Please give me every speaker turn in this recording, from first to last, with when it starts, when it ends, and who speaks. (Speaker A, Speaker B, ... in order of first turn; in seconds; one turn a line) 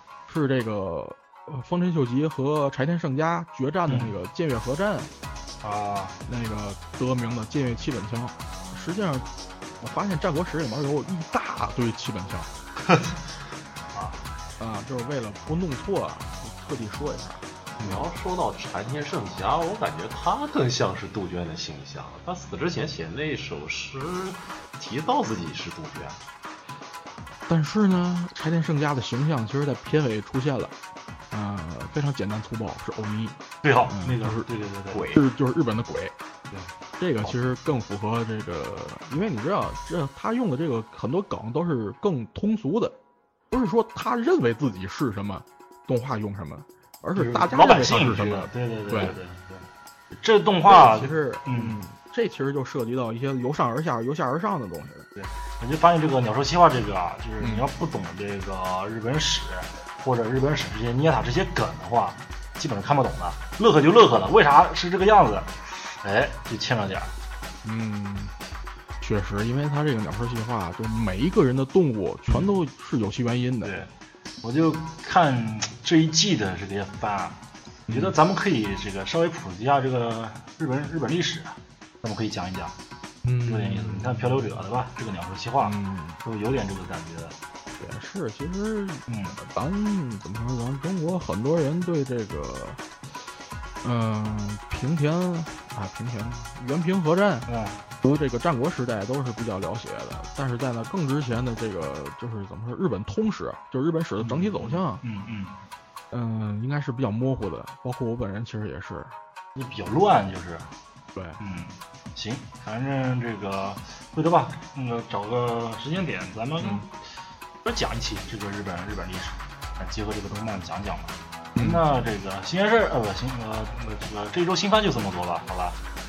Speaker A: 0.3-5.1
Speaker B: 3.9-4.1
Speaker B: 5.6-6.2
Speaker A: 6.3-9.3
Speaker A: 9.8-12.5
Speaker B: 12.9-13.2
Speaker B: 13.9-14.2
Speaker A: 14.6-17.4
Speaker B: 17.8-18.0
Speaker C: 17.8-26.2
Speaker A: 27.5-30.7
Speaker A: 31.3-34.5
Speaker B: 33.6-35.0
Speaker C: 34.9-35.2
Speaker A: 35.1-36.1
Speaker A: 37.0-43.0
Speaker A: 43.5-49.1
Speaker B: 47.2-49.6
Speaker B: 50.2-51.8
Speaker A: 50.7-55.1
Speaker B: 55.2-67.1
Speaker A: 57.4-57.7
Speaker A: 67.6-68.3
Speaker A: 69.0-73.8
Speaker B: 73.6-73.9
Speaker B: 74.4-77.4
Speaker A: 77.9-78.1
Speaker B: 77.9-82.8
Speaker A: 83.2-84.4
Speaker B: 83.5-87.4
Speaker A: 85.6-86.2
Speaker A: 87.8-92.8
Speaker B: 89.1-89.4
Speaker A: 93.8-97.5
Speaker B: 97.5-97.8
Speaker A: 98.0-105.0
Speaker B: 104.2-105.5
Speaker A: 106.1-109.2
Speaker B: 109.5-110.7
Speaker A: 111.2-111.4
Speaker B: 111.4-116.9
Speaker A: 116.6-116.9
Speaker B: 117.6-125.8
Speaker A: 121.6-121.8